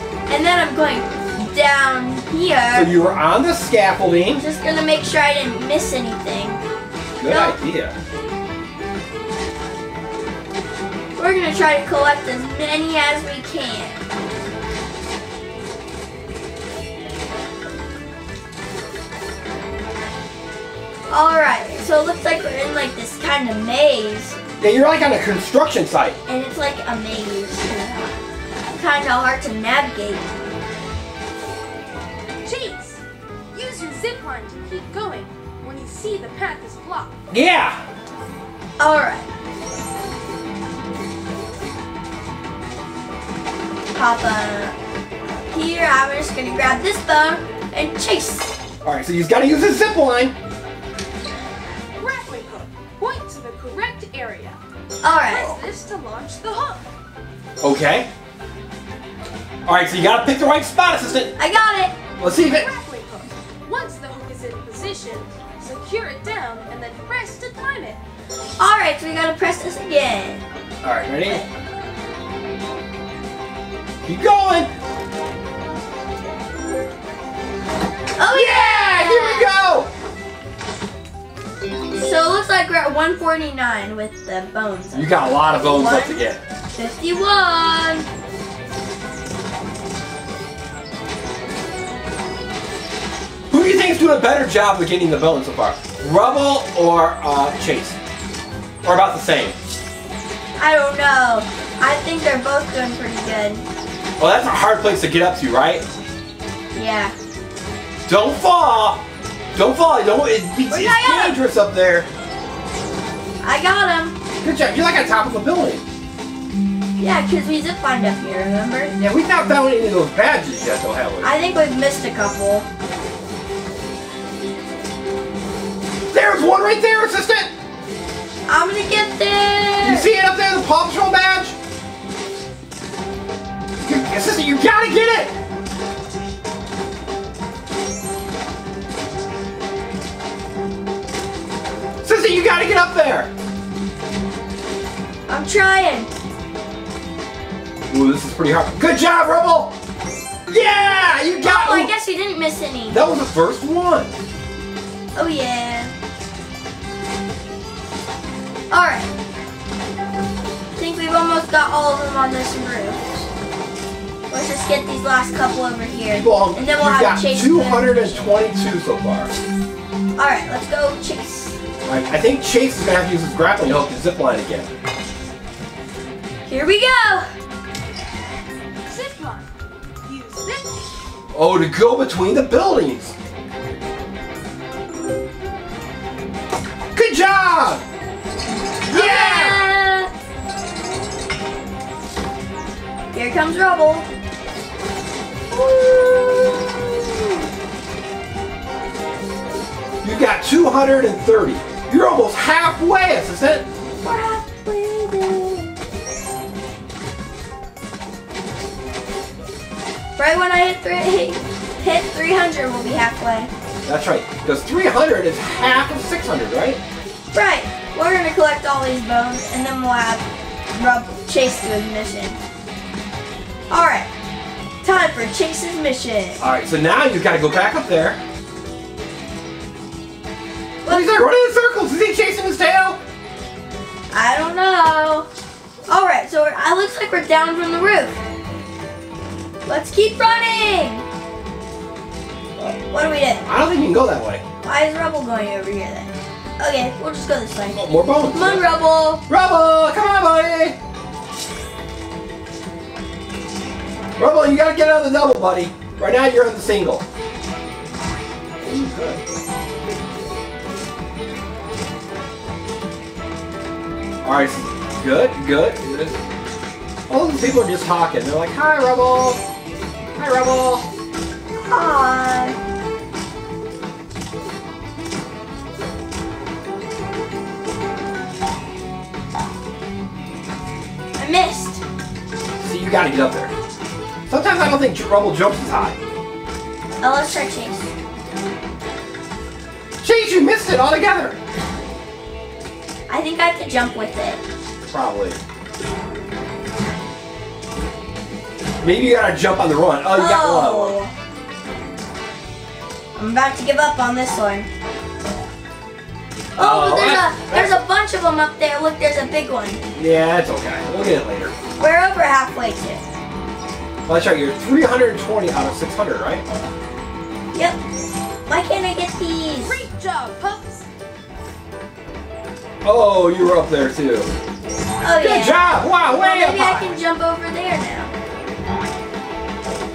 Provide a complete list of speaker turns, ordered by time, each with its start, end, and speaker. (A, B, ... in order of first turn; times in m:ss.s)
0:00.3-0:03.0 A
0:02.7-0:04.4 B
0:04.4-0:06.6 A
0:07.2-0:08.0 B
0:07.2-0:07.6 A
0:11.2-0:14.0 A
0:21.1-0:24.4 A
0:24.6-0:26.2 B
0:26.3-0:28.2 A
0:28.7-0:30.3 A
0:32.4-0:33.0 C
0:33.5-0:37.1 C
0:37.3-0:37.8 B
0:38.8-0:39.2 A
0:43.9-0:44.7 A
0:45.4-0:48.6 A
0:48.8-0:50.3 B
0:52.0-0:56.8 C
0:55.0-0:55.6 A
0:57.6-0:58.1 B
0:59.6-1:01.3 B
1:01.4-1:02.0 A
1:02.2-1:02.7 B
1:02.2-1:08.0 C
1:08.6-1:10.4 A
1:10.8-1:11.4 B
1:14.0-1:14.7 B
1:18.2-1:19.5 A
1:18.2-1:19.9 B
1:21.9-1:26.2 A
1:24.9-1:26.4 B
1:26.7-1:28.0 A
1:33.5-1:38.0 B
1:38.8-1:39.6 B
1:40.6-1:43.6 A
1:44.2-1:45.8 B
1:46.7-1:47.1 A
1:48.1-1:49.0 B
1:49.5-1:52.1 B
1:50.7-1:51.4 A
1:53.4-1:54.2 A
1:54.4-1:55.8 B
1:57.0-1:59.0 A
1:59.0-2:01.3 B
2:01.2-2:02.6 A
2:06.1-2:07.5 B
2:08.5-2:10.1 A
2:09.8-2:11.6 B
2:13.8-2:15.3 B
2:22.0-2:23.3 B
2:25.3-2:26.1 A
2:27.9-2:29.8 B
2:30.5-2:31.9 B
2:31.4-2:33.0 A
2:32.9-2:34.1 B
2:35.1-2:35.9 A
2:38.7-2:39.1 A
2:40.8-2:43.3 A
2:44.3-2:48.3 A
2:46.1-2:49.3 B
2:50.2-2:51.6 A
2:51.8-2:54.7 B
2:56.4-2:57.3 A
2:58.8-2:59.5 C
3:00.0-3:00.8 C
3:01.3-3:03.1 B
3:06.9-3:07.8 B
3:08.8-3:10.1 A
3:08.9-3:09.7 B
3:13.1-3:14.1 A
3:15.5-3:17.4 A
3:20.0-3:23.7 B
3:24.0-3:25.7 A
3:30.2-3:33.5 A
3:33.8-3:36.8 B
3:37.3-3:42.4 A
3:43.7-3:44.1 A
3:44.8-3:46.4 A
3:46.4-3:48.2 B
3:50.8-3:51.2 A
3:50.9-3:53.0 B
3:54.1-3:55.3 A
3:55.9-3:58.2 A
3:59.6-4:01.0 A
4:02.6-4:03.4 A
4:03.4-4:04.4 B
4:04.6-4:09.2 A
4:07.7-4:08.6 B
4:09.3-4:10.8 B
4:14.2-4:17.0 B
4:18.6-4:19.2 B
4:24.2-4:26.1 B
4:27.1-4:29.4 B
4:30.2-4:30.9 B
4:31.6-4:32.6 A
4:41.2-4:41.8 A
4:42.6-4:43.5 B
4:44.3-4:46.0 B
4:47.0-4:47.9 A
4:50.0-4:51.4 B
4:53.1-4:54.4 A
4:54.9-4:55.4 B
4:58.8-5:01.0 B
5:00.1-5:01.1 A
5:03.2-5:04.7 A
5:06.6-5:09.8 A
5:06.6-5:07.8 B
5:10.0-5:11.5 B
5:11.8-5:13.0 A
5:14.1-5:16.4 B
5:17.5-5:17.8 A
5:18.5-5:19.8 A
5:19.6-5:20.9 C
5:22.8-5:24.3 B
5:25.0-5:28.1 A
5:25.2-5:27.0 B